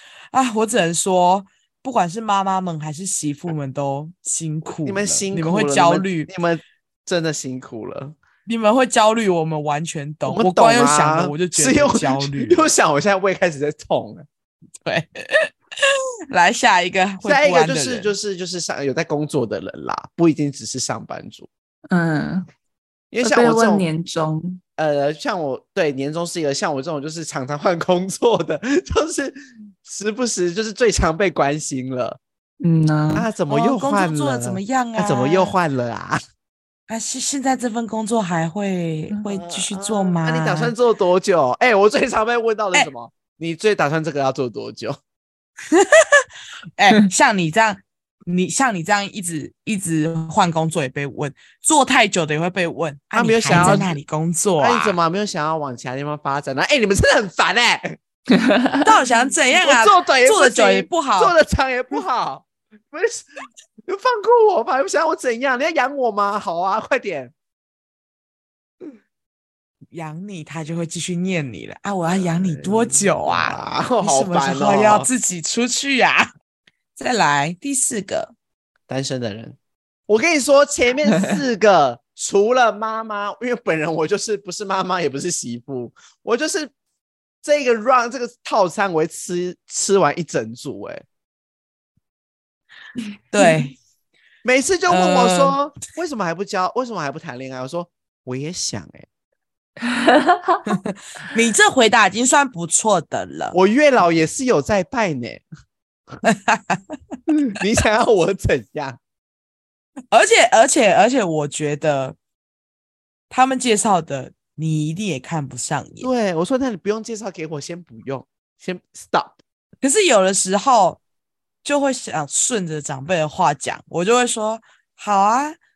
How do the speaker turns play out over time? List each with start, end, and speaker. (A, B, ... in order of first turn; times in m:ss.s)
0:00.3-0:06.3 A
0:04.8-0:08.2 B
0:08.5-0:12.7 A
0:10.3-0:14.3 B
0:14.8-0:18.1 A
0:17.2-0:21.5 B
0:21.9-0:22.5 C
0:23.1-0:23.9 B
0:23.2-0:24.6 C
0:24.8-0:32.2 B
0:32.6-0:33.3 C
0:33.1-0:36.2 B
0:33.5-0:35.6 A
0:36.9-0:40.7 A
0:39.3-0:45.0 B
0:45.7-0:55.0 A
0:53.1-0:54.0 B
0:53.5-0:53.8 C
0:54.6-0:58.0 B
0:58.3-0:58.9 C
0:58.8-1:01.4 A
0:59.6-1:07.3 B
1:09.9-1:16.3 A
1:12.1-1:15.1 B
1:17.0-1:18.3 A
1:18.9-1:19.6 B
1:20.1-1:26.7 B
1:27.4-1:31.0 B
1:33.3-1:33.8 A
1:34.4-1:39.1 B
1:34.9-1:35.6 A
1:39.8-1:40.7 C
1:40.7-1:43.6 A
1:43.5-1:45.4 B
1:46.2-1:46.9 A
1:47.3-1:49.0 B
1:50.1-1:52.2 A
1:53.3-1:56.1 A
1:56.0-1:59.4 B
1:59.8-2:01.0 A
2:01.6-2:05.6 A